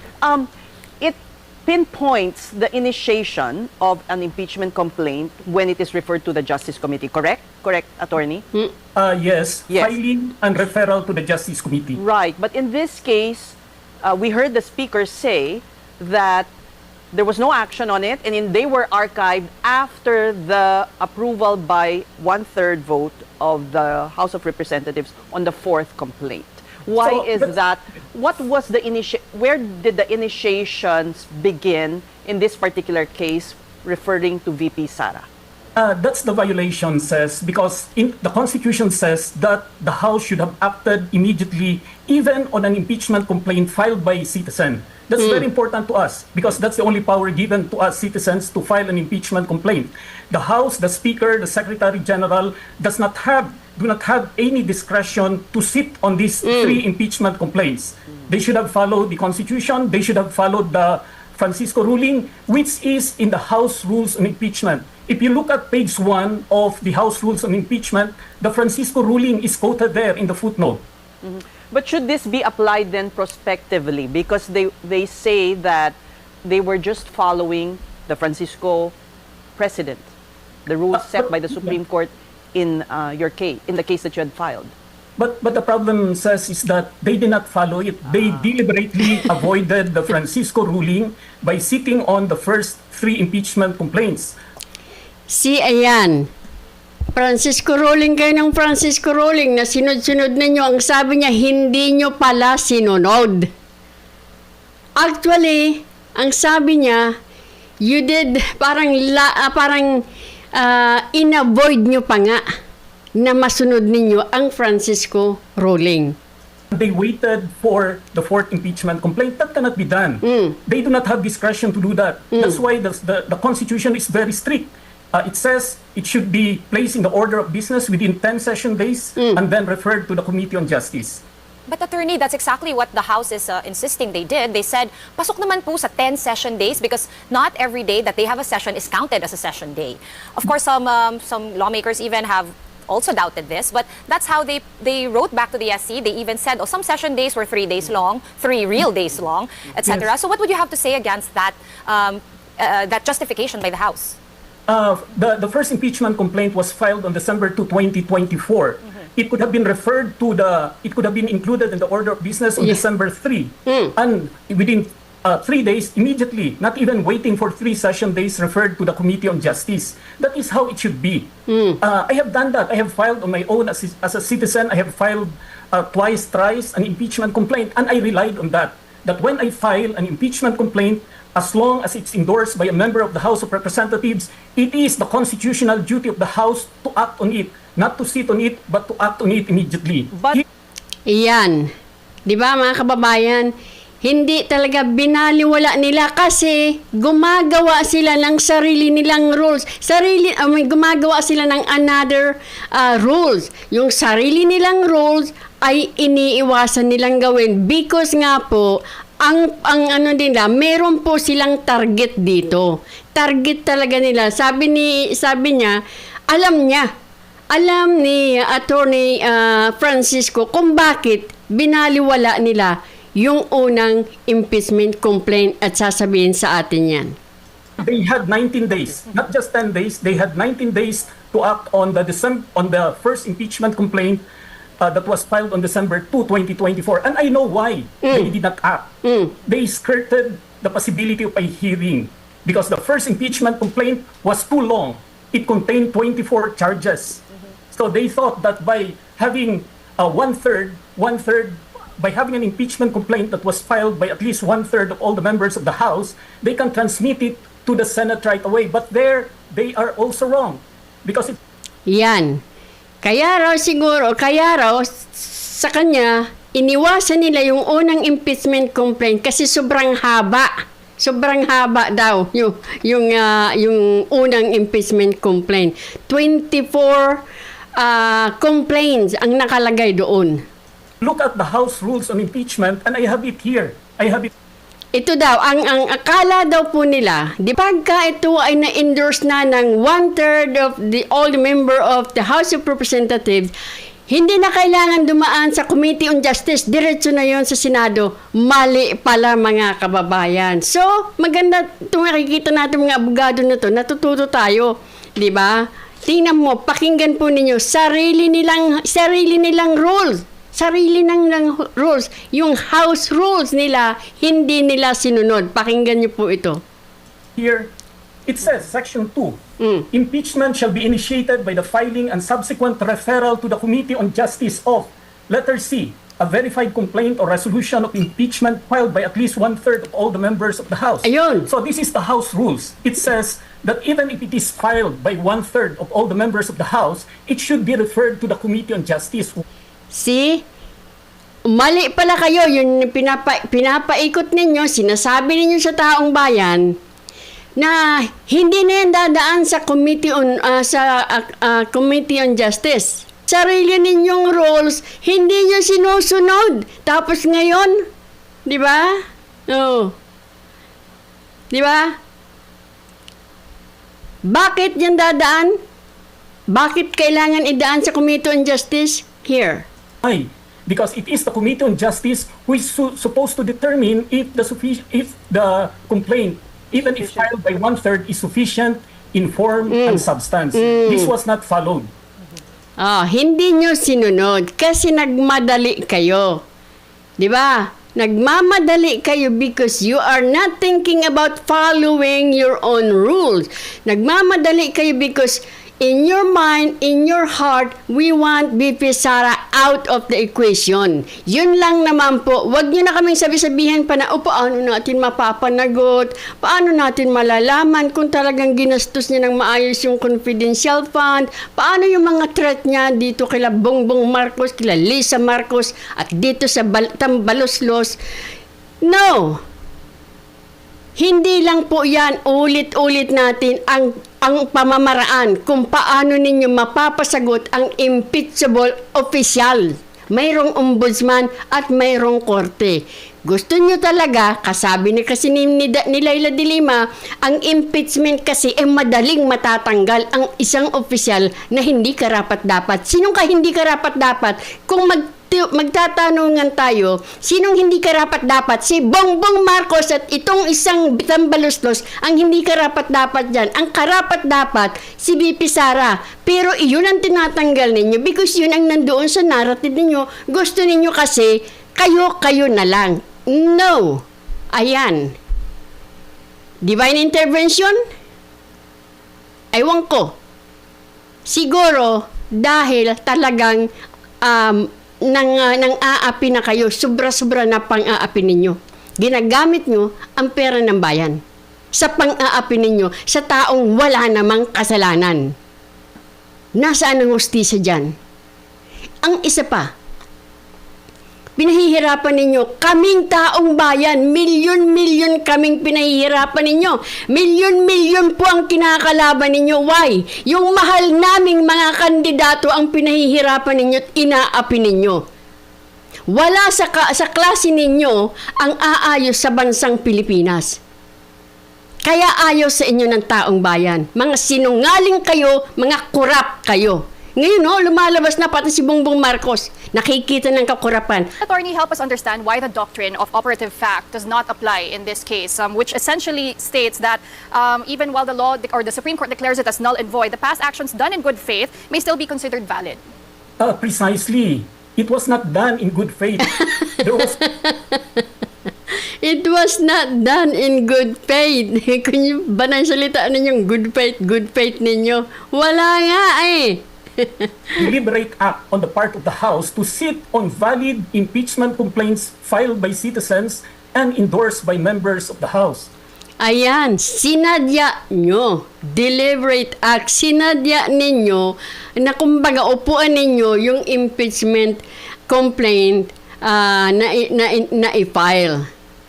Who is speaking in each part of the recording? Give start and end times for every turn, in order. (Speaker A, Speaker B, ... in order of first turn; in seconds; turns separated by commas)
Speaker A: 0.2-8.4, Speaker B: 8.9-12.0, Speaker A: 9.7-9.9, Speaker A: 11.9-16.5, Speaker A: 17.1-35.3, Speaker B: 27.0-27.5, Speaker B: 35.8-70.8, Speaker C: 56.5-56.8, Speaker A: 71.2-79.0, Speaker A: 79.6-80.1, Speaker A: 80.7-84.7, Speaker B: 80.9-81.8, Speaker B: 85.2-94.4, Speaker C: 95.3-96.3, Speaker C: 97.1-103.5, Speaker C: 105.0-107.1, Speaker C: 107.8-110.0, Speaker C: 110.5-112.4, Speaker C: 113.2-116.2, Speaker B: 116.7-131.2, Speaker C: 120.2-120.5, Speaker D: 131.7-154.2, Speaker B: 154.7-190.4, Speaker C: 163.7-163.9, Speaker C: 171.5-171.8, Speaker A: 190.1-190.4, Speaker C: 191.1-191.7, Speaker C: 192.3-216.9, Speaker C: 217.5-227.2, Speaker B: 227.8-234.2, Speaker B: 234.8-261.4, Speaker C: 238.0-238.3, Speaker C: 239.0-239.3, Speaker C: 261.9-262.4, Speaker C: 263.0-277.2, Speaker C: 277.8-280.4, Speaker B: 281.0-284.3, Speaker C: 284.9-293.5, Speaker C: 294.1-316.6, Speaker B: 317.4-317.7, Speaker B: 318.3-339.4, Speaker C: 331.0-331.5, Speaker C: 339.9-340.4, Speaker C: 341.4-346.8, Speaker C: 347.6-357.8, Speaker C: 358.4-359.9, Speaker C: 361.5-362.0, Speaker C: 364.2-365.6, Speaker C: 366.5-369.7, Speaker B: 370.0-381.9, Speaker A: 376.8-377.3, Speaker C: 379.7-381.1, Speaker C: 382.8-386.4, Speaker C: 387.2-418.0, Speaker C: 418.8-419.4, Speaker C: 420.9-465.1, Speaker C: 466.6-467.8, Speaker C: 469.5-470.2, Speaker C: 471.3-473.7, Speaker C: 474.2-481.2, Speaker C: 481.7-485.3, Speaker C: 486.6-487.9, Speaker C: 489.0-489.7, Speaker C: 491.4-505.0, Speaker C: 506.1-510.6, Speaker C: 511.8-521.1, Speaker E: 521.2-532.8, Speaker B: 533.4-537.2, Speaker C: 537.4-538.0, Speaker C: 539.0-547.3, Speaker B: 547.6-555.7, Speaker C: 556.2-568.5